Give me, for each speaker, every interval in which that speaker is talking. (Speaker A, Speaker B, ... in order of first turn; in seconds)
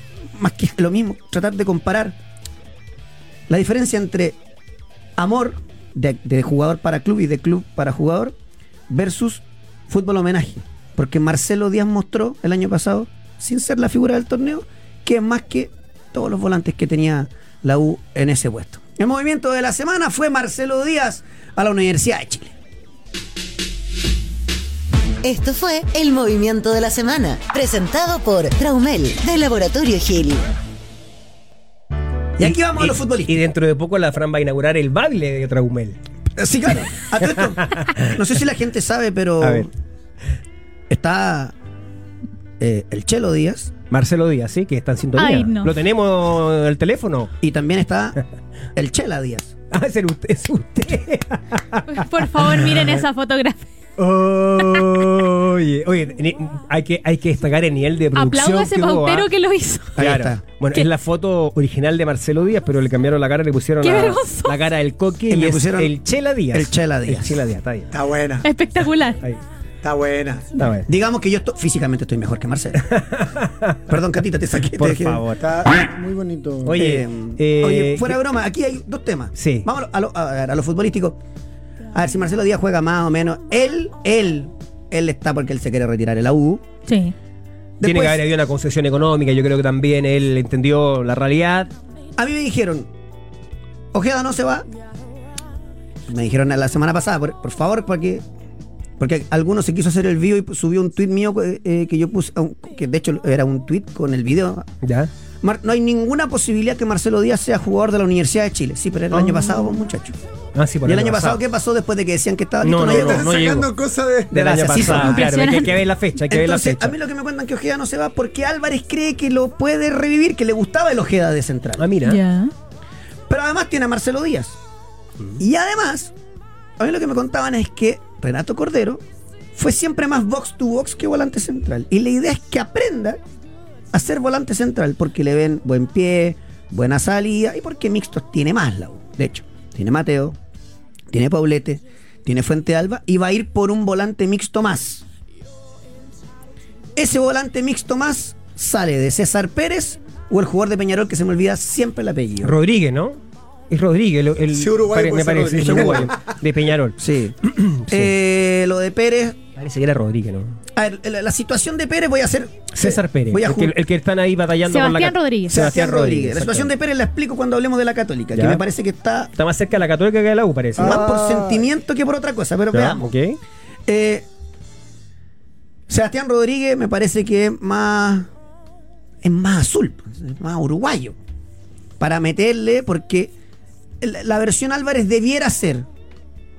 Speaker A: 0.3-2.1, 3.5-4.4, 5.2-8.3, 8.9-22.5, 32.4-33.4, 36.4-39.7, 40.9-41.5, 42.6-43.7, 47.4-48.2, 48.7-49.5, 60.0-60.4, 65.3-65.9, 66.5-67.4, 70.8-73.0, 73.9-75.2, 76.7-81.2, 81.9-86.6, 87.8-88.2, 92.2-92.9, 93.9-94.7, 96.1-98.2, 99.0-104.7, 105.4-110.2, 110.8-113.3, 114.3-115.2, 116.3-121.8, 123.3-124.6, 125.4-126.1, 126.8-129.0, 129.5-133.2, 133.9-140.4, 141.1-145.0, 146.9-152.5, 155.7-156.1, 157.0-159.4, 160.7-163.7, 165.5-169.3, 170.8-173.1, 173.9-174.2, 175.9-178.3, 179.2-181.2, 182.0-183.3, 184.0-185.8
Speaker B: 25.2-30.4
Speaker C: 32.4-36.0, 37.7-38.1, 39.4-39.7, 43.9-47.3, 49.7-52.9, 54.0-59.3, 60.0-67.9, 70.6-70.9, 72.9-73.8, 74.7-75.5, 76.6-78.2, 79.3-79.7, 87.8-91.7, 104.8-105.1, 110.5-111.4, 112.6-113.7, 114.3-117.0, 121.8-122.2, 152.4-158.1, 159.5-160.6, 162.7-166.7, 168.3-168.6, 169.3-171.1, 172.7-173.4
Speaker D: 45.2-45.7, 51.9-53.7, 58.1-60.0, 63.8-64.5, 68.4-69.2, 86.9-87.1, 114.9-115.8, 122.0-122.5, 164.7-165.7
Speaker E: 67.9-68.5, 69.8-70.6, 75.3-76.8, 112.8-115.2, 154.5-156.4, 170.8-171.7